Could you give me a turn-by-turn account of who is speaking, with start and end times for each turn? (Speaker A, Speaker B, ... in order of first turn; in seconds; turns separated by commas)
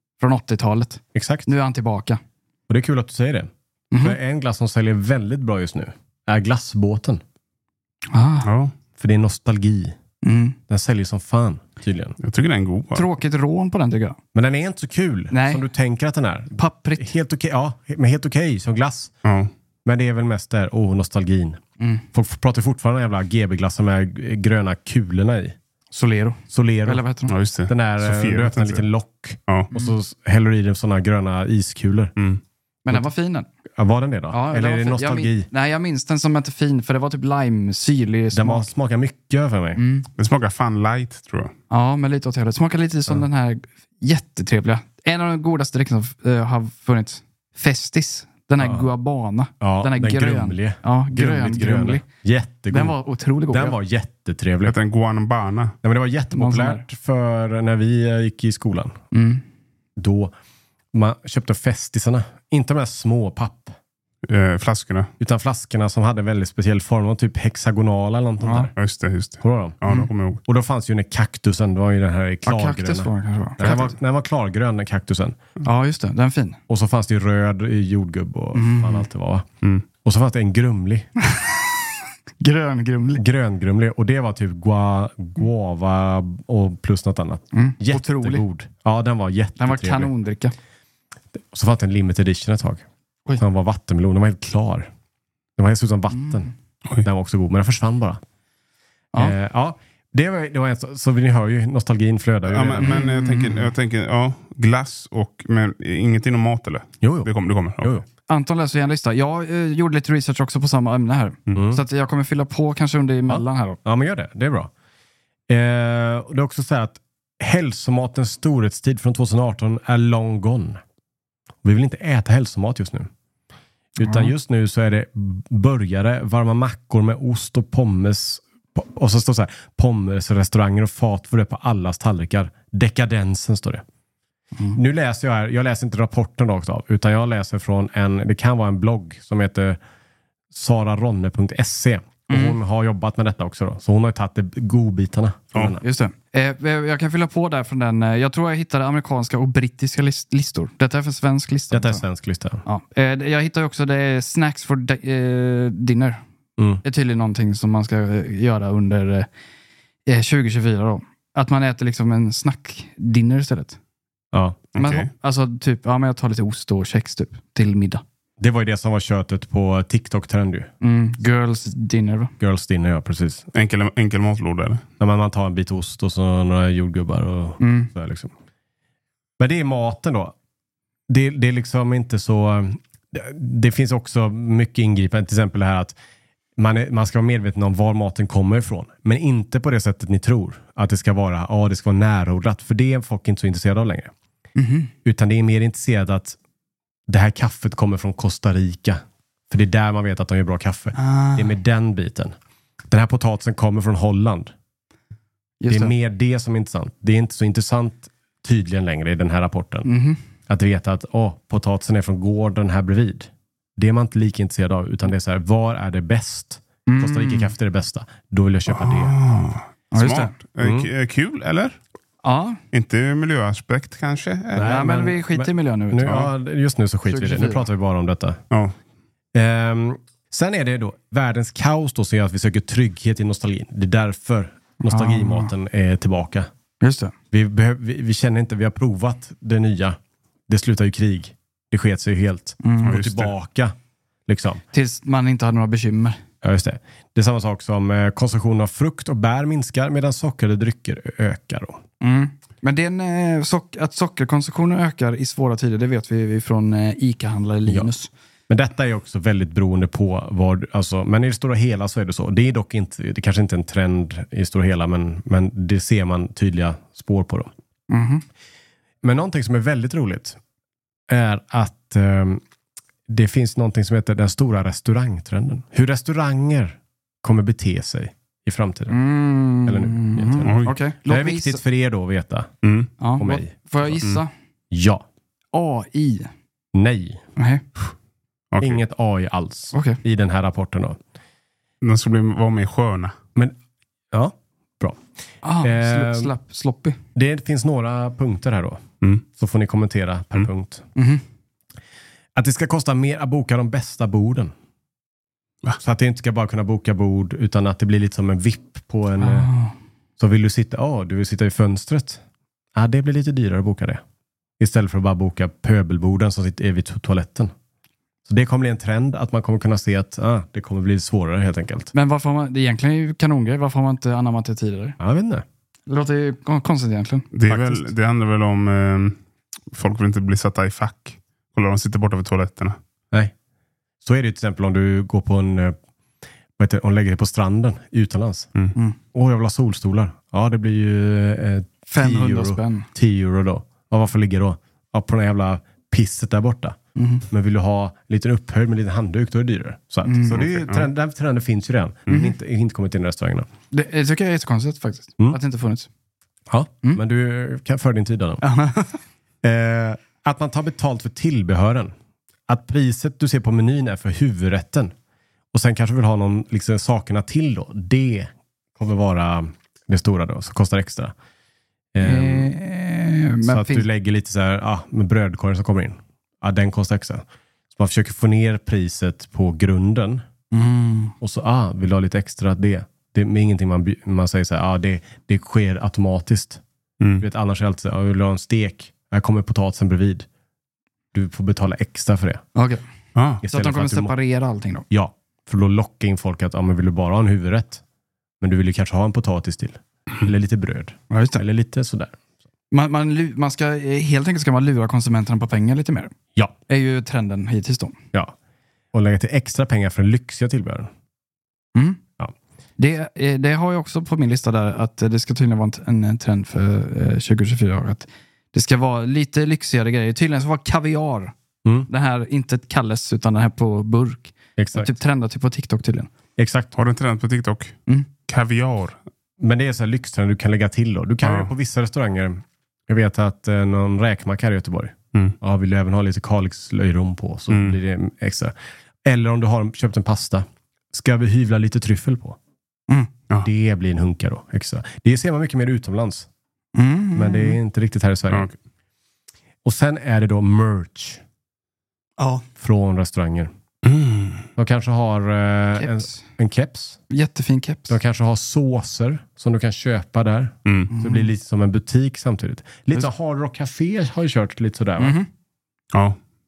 Speaker A: 0.2-2.2, Speaker B: 1.1-1.5, Speaker B: 2.7-7.2, Speaker A: 3.9-4.2, Speaker A: 8.1-8.5, Speaker C: 8.4-8.7, Speaker B: 9.0-9.9, Speaker A: 10.2-10.6, Speaker B: 10.7-12.2, Speaker C: 12.2-13.1, Speaker A: 12.9-14.2, Speaker B: 14.3-19.1, Speaker A: 15.3-15.6, Speaker A: 16.6-17.1, Speaker C: 19.2-19.5, Speaker B: 19.9-21.6, Speaker B: 22.1-25.6, Speaker A: 25.9-27.3, Speaker B: 26.5-27.0, Speaker C: 27.3-28.9, Speaker B: 27.7-32.1, Speaker A: 32.9-33.5, Speaker B: 33.8-35.5, Speaker A: 34.3-38.7, Speaker B: 38.3-39.8, Speaker A: 39.8-40.1, Speaker C: 40.2-41.5, Speaker A: 41.7-52.0, Speaker B: 48.6-48.9, Speaker B: 49.6-53.0, Speaker A: 52.7-53.8, Speaker B: 53.5-54.8, Speaker C: 54.6-55.8, Speaker B: 55.8-59.0, Speaker A: 56.3-56.8, Speaker A: 59.1-59.4, Speaker B: 60.0-60.3, Speaker B: 60.9-63.8, Speaker C: 64.2-65.1, Speaker B: 65.2-68.7, Speaker A: 68.4-68.7, Speaker C: 68.8-70.4, Speaker B: 69.4-69.8, Speaker B: 70.5-75.4, Speaker A: 72.5-73.9, Speaker A: 75.6-76.6, Speaker B: 76.7-79.5, Speaker A: 78.5-79.1, Speaker B: 80.0-81.1, Speaker A: 81.3-81.8, Speaker A: 82.4-83.2, Speaker B: 83.1-90.1, Speaker A: 87.5-88.4, Speaker A: 89.6-90.5, Speaker B: 91.3-92.8, Speaker B: 93.4-94.9, Speaker B: 95.6-96.5, Speaker B: 97.0-98.2, Speaker B: 99.2-103.0, Speaker C: 102.5-108.0, Speaker A: 102.8-103.7, Speaker B: 107.0-107.3, Speaker A: 108.3-113.8, Speaker B: 111.5-111.8, Speaker B: 113.3-114.7, Speaker B: 115.5-120.8, Speaker B: 121.6-123.1, Speaker B: 124.0-133.8, Speaker A: 124.0-124.3, Speaker B: 134.7-139.8, Speaker B: 140.5-145.8, Speaker A: 142.3-142.6, Speaker A: 145.8-152.0, Speaker B: 151.7-152.6, Speaker A: 152.7-156.2, Speaker A: 156.8-159.3, Speaker A: 160.1-163.8, Speaker B: 164.3-164.6, Speaker C: 164.8-165.1, Speaker A: 164.8-168.0, Speaker B: 168.4-170.7, Speaker A: 170.8-172.3, Speaker B: 172.4-173.5, Speaker C: 173.5-174.8, Speaker B: 175.0-178.3, Speaker A: 177.6-177.9, Speaker B: 179.4-180.3, Speaker B: 181.1-186.0, Speaker B: 186.6-194.1, Speaker A: 194.6-194.9, Speaker B: 195.1-196.4, Speaker B: 197.1-202.3, Speaker A: 200.9-201.5, Speaker B: 202.9-204.5, Speaker A: 205.6-205.9, Speaker B: 205.7-209.9, Speaker A: 209.8-210.2, Speaker B: 210.5-219.1, Speaker A: 216.9-217.5, Speaker C: 218.7-221.8, Speaker A: 219.9-220.3, Speaker B: 220.6-220.9, Speaker A: 222.2-222.6, Speaker C: 222.7-224.8, Speaker B: 224.6-228.4, Speaker A: 224.6-226.2, Speaker C: 226.1-226.3, Speaker A: 227.1-227.7, Speaker B: 229.3-236.5, Speaker A: 234.8-235.5, Speaker A: 236.8-237.1, Speaker B: 237.3-243.8, Speaker A: 242.6-242.9, Speaker C: 242.9-243.3, Speaker B: 244.3-244.6, Speaker A: 244.7-246.2, Speaker B: 246.4-251.8, Speaker A: 252.0-258.1, Speaker B: 258.5-267.5, Speaker A: 267.9-268.2, Speaker B: 269.0-270.4, Speaker B: 271.1-272.4, Speaker B: 273.1-279.0, Speaker A: 278.9-281.6, Speaker B: 279.6-282.5, Speaker C: 280.4-280.8, Speaker C: 282.6-282.9, Speaker A: 283.0-284.3, Speaker B: 283.2-284.0, Speaker B: 284.7-285.1, Speaker A: 285.5-286.3, Speaker B: 286.7-287.2, Speaker A: 287.4-287.6, Speaker C: 288.5-288.8, Speaker B: 288.6-291.0, Speaker A: 289.7-290.0, Speaker C: 291.8-293.1, Speaker B: 294.1-295.0, Speaker A: 295.4-297.0, Speaker B: 295.6-296.3, Speaker B: 297.1-300.9, Speaker A: 301.0-301.2, Speaker B: 302.4-304.5, Speaker B: 305.8-309.5, Speaker A: 309.2-309.7, Speaker B: 310.2-312.2, Speaker B: 312.8-314.0, Speaker B: 314.6-317.5, Speaker B: 318.3-321.9, Speaker A: 321.9-325.0, Speaker B: 325.0-325.4, Speaker A: 325.9-327.3, Speaker C: 327.3-329.2, Speaker B: 327.5-327.8, Speaker C: 329.7-332.8, Speaker B: 334.0-335.8, Speaker B: 336.6-338.5, Speaker B: 339.1-346.8, Speaker A: 341.9-342.9, Speaker A: 347.0-347.3, Speaker B: 347.3-353.5, Speaker A: 350.1-350.4, Speaker C: 350.4-350.9, Speaker A: 353.7-355.9, Speaker B: 356.5-358.4, Speaker A: 358.4-359.0, Speaker B: 359.4-361.9, Speaker B: 362.5-364.9, Speaker B: 365.5-371.1, Speaker B: 371.9-372.5, Speaker A: 372.0-373.9, Speaker B: 373.4-380.2, Speaker A: 380.5-381.1, Speaker B: 381.2-386.6, Speaker C: 387.0-387.2, Speaker B: 387.2-390.3, Speaker B: 391.1-392.5, Speaker A: 392.6-392.8, Speaker C: 393.1-393.4, Speaker B: 393.4-394.1, Speaker A: 393.5-394.9, Speaker B: 394.9-397.8, Speaker B: 398.4-402.1, Speaker A: 401.1-401.4, Speaker A: 402.7-406.1, Speaker A: 406.7-408.0, Speaker B: 408.9-410.9, Speaker A: 411.8-412.0, Speaker A: 412.8-421.3, Speaker B: 421.6-421.9, Speaker A: 421.9-426.1, Speaker B: 424.6-424.9, Speaker B: 426.4-426.7, Speaker C: 426.8-429.0, Speaker B: 429.4-438.5, Speaker C: 431.2-431.5, Speaker C: 437.5-437.8, Speaker B: 439.1-442.4, Speaker B: 443.4-446.3, Speaker A: 446.8-447.6, Speaker B: 447.1-448.5, Speaker B: 449.6-451.2, Speaker A: 452.2-452.4, Speaker B: 452.6-453.5, Speaker C: 453.8-454.5, Speaker B: 454.6-457.0, Speaker A: 455.8-456.2, Speaker A: 457.1-458.0, Speaker B: 457.9-465.2, Speaker A: 460.9-461.3, Speaker A: 465.0-465.3, Speaker C: 465.9-466.2